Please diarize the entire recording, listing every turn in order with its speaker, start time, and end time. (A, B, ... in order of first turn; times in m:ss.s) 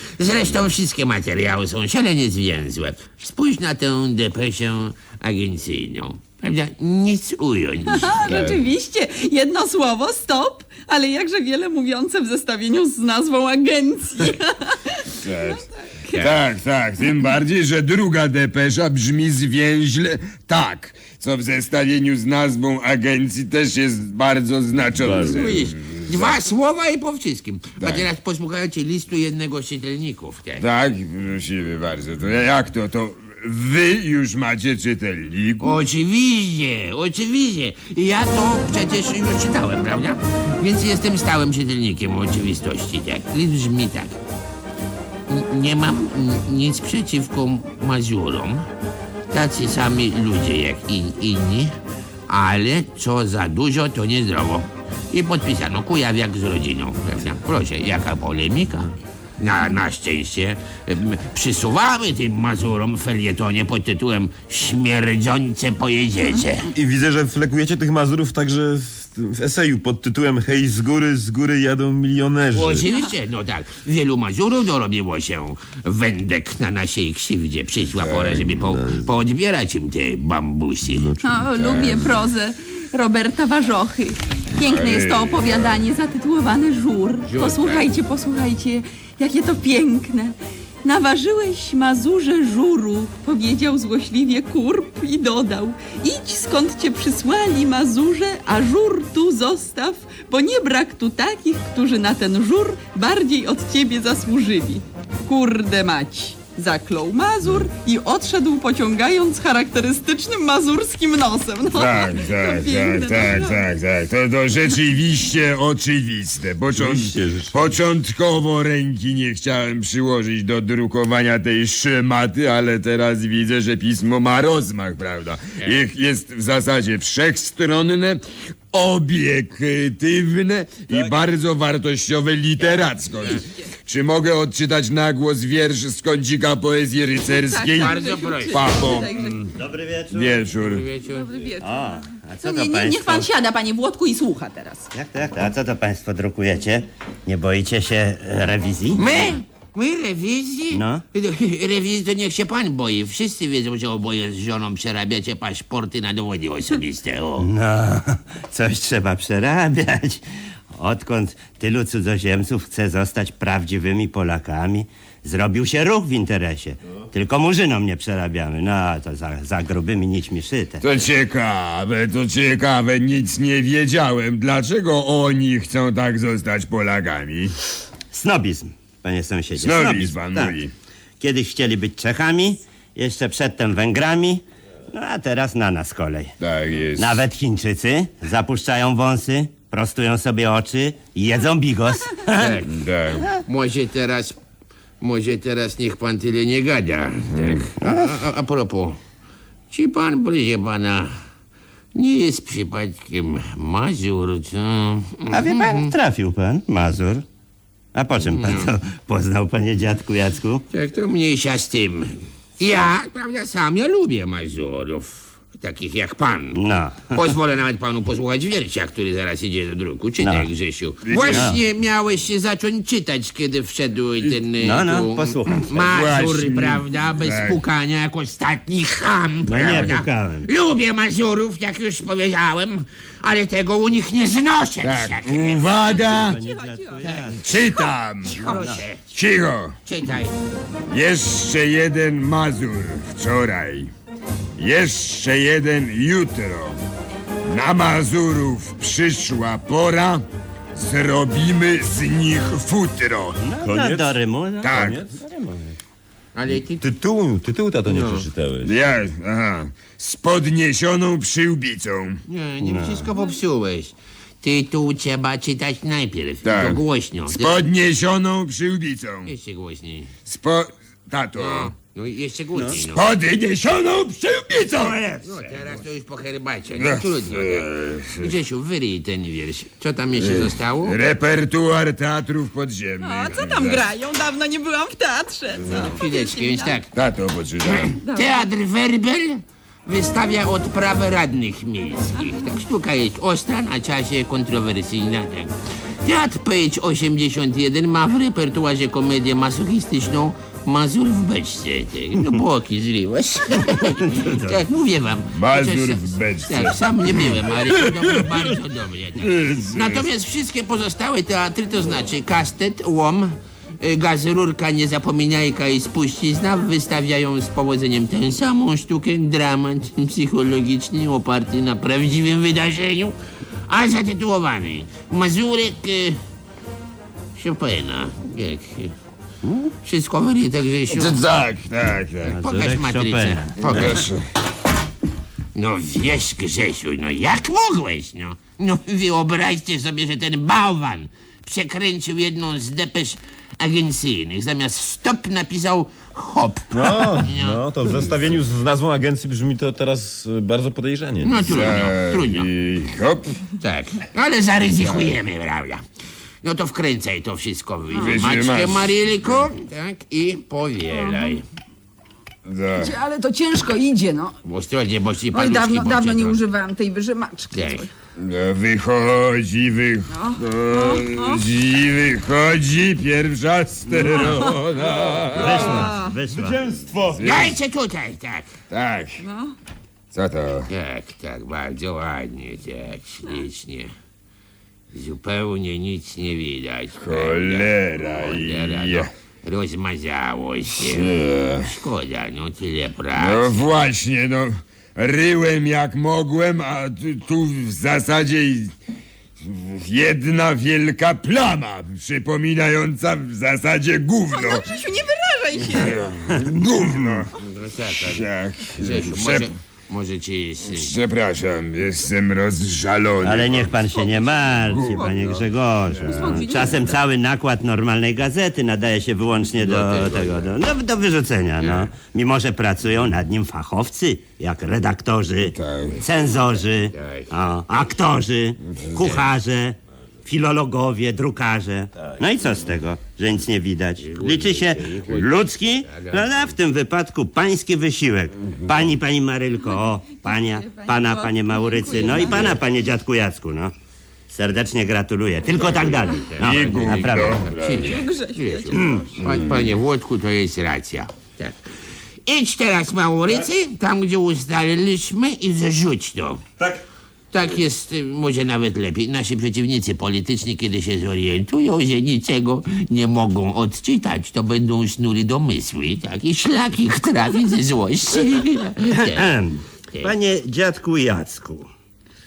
0:00.2-0:08.1 A
0:07.9-0:15.0 B
0:08.2-0:08.7 C
0:15.2-0:26.4 C
0:24.9-0:25.7 D
0:25.2-0:30.6 A
0:27.8-0:28.1 C
0:30.6-0:35.8 C
0:35.6-0:44.2 A
0:45.3-0:48.7 A
0:49.3-0:51.7 A
0:52.3-1:06.6 A
1:06.7-1:12.9 D
1:12.5-1:21.1 A
1:18.0-1:18.4 C
1:18.3-1:19.1 D
1:20.8-1:21.5 D
1:21.2-1:53.6 B
1:21.5-1:22.3 C
1:24.5-1:25.8 C
1:27.2-1:27.9 A
1:51.7-2:08.2 C
1:56.7-1:57.7 D
2:08.7-2:19.5 C
2:12.6-2:13.4 A
2:17.2-2:19.3 B
2:17.7-2:18.8 A
2:19.5-2:20.4 E
2:20.1-2:20.9 C
2:20.5-2:21.4 A
2:21.0-2:21.7 B
2:21.6-2:23.3 E
2:22.4-2:24.9 B
2:24.9-2:29.3 E
2:28.9-2:37.5 A
2:30.7-2:31.0 E
2:37.4-2:50.8 E
2:50.8-2:57.5 C
2:58.1-3:00.6 E
2:59.6-3:00.7 C
3:01.2-3:06.3 E
3:06.4-3:07.2 C
3:07.0-3:12.6 E
3:12.2-3:12.7 A
3:12.7-3:13.3 C
3:13.4-3:14.4 A
3:15.0-3:19.0 A
3:17.3-3:17.7 C
3:17.8-3:18.1 E
3:19.7-3:21.2 A
3:21.9-3:25.9 A
3:25.3-3:27.2 E
3:27.9-3:30.6 E
3:28.2-3:28.7 A
3:30.7-3:36.6 A
3:36.5-3:37.2 E
3:37.1-3:55.7 A
3:40.2-3:40.5 E
3:41.0-3:41.6 C
3:41.2-3:41.6 E
3:44.6-3:45.7 E
3:45.8-3:47.6 C
3:49.4-3:50.5 E
3:54.8-3:56.4 C
3:55.9-3:57.5 E
3:56.4-3:57.0 B
3:57.0-3:57.4 A
3:57.2-3:59.8 C
3:58.2-3:59.1 A
3:58.4-3:58.8 E
3:59.8-4:00.3 A
4:00.9-4:03.9 C
4:04.6-4:06.8 C
4:07.5-4:10.2 C
4:10.7-4:13.4 C
4:13.4-4:15.6 E
4:13.6-4:15.2 D
4:14.6-4:15.0 C
4:16.3-4:16.8 A
4:16.8-4:18.7 D
4:17.9-4:22.2 C
4:22.3-4:27.6 A
4:22.6-4:23.1 E
4:26.4-4:29.3 C
4:29.2-4:30.1 A
4:30.2-4:31.7 C
4:31.3-4:33.0 A
4:32.8-4:35.7 C
4:35.2-4:41.0 A
4:36.7-4:38.3 C
4:40.1-4:43.9 C
4:43.0-4:46.8 B
4:45.6-4:46.0 C
4:45.6-4:46.9 A
4:46.9-4:48.0 C
4:47.6-4:55.5 A
4:48.0-4:48.4 B
4:56.0-5:23.2 A
5:04.0-5:04.5 E
5:05.3-5:08.4 C
5:09.2-5:10.0 C
5:23.7-5:26.2 A
5:27.4-5:28.9 A
5:29.4-5:29.7 E
5:29.8-5:31.2 A
5:30.9-5:32.4 C
5:32.2-5:33.9 E
5:32.4-5:34.1 A
5:33.6-5:34.2 C
5:35.5-5:47.6 A
5:46.7-5:51.7 D
5:51.2-5:52.5 A
5:51.5-5:53.3 C
5:53.6-5:55.8 A
5:54.8-5:55.2 C
5:56.4-6:01.4 A
5:57.9-5:59.0 C
6:00.9-6:01.4 B
6:02.4-6:03.0 C
6:02.8-6:04.4 B
6:04.4-6:06.4 A
6:05.3-6:07.9 B
6:07.5-6:07.8 A
6:08.2-6:15.9 C
6:10.1-6:11.4 B
6:14.1-6:14.4 B
6:14.8-6:17.4 D
6:15.3-6:16.6 E
6:15.8-6:16.1 B
6:17.1-6:17.6 C
6:17.2-6:18.5 A
6:18.7-6:19.2 C
6:19.2-6:19.5 B
6:20.1-6:20.7 C
6:20.7-6:23.9 A
6:24.9-6:33.6 A
6:27.0-6:29.1 C
6:30.8-6:31.7 C
6:33.2-6:38.7 C
6:39.4-6:44.8 C
6:44.3-6:46.0 B
6:45.6-6:47.3 C
6:47.4-6:50.9 A
6:47.9-6:49.5 C
6:50.6-6:53.8 C
6:53.2-7:23.7 E
6:53.8-6:55.3 B
6:54.5-6:56.9 C
6:56.0-6:56.7 B
6:59.6-7:00.5 A
7:01.6-7:01.9 A
7:05.4-7:06.1 C
7:06.3-7:07.3 A
7:08.7-7:09.1 C
7:08.9-7:09.3 A
7:14.0-7:16.5 A
7:20.2-7:22.6 B
7:22.1-7:22.5 A
7:24.3-7:27.4 E
7:25.5-7:31.6 A
7:26.4-7:28.0 C
7:27.8-7:29.2 B
7:28.7-7:29.1 E
7:29.2-7:29.7 C
7:32.2-7:36.4 A
7:37.3-7:49.3 A
7:48.9-7:51.7 E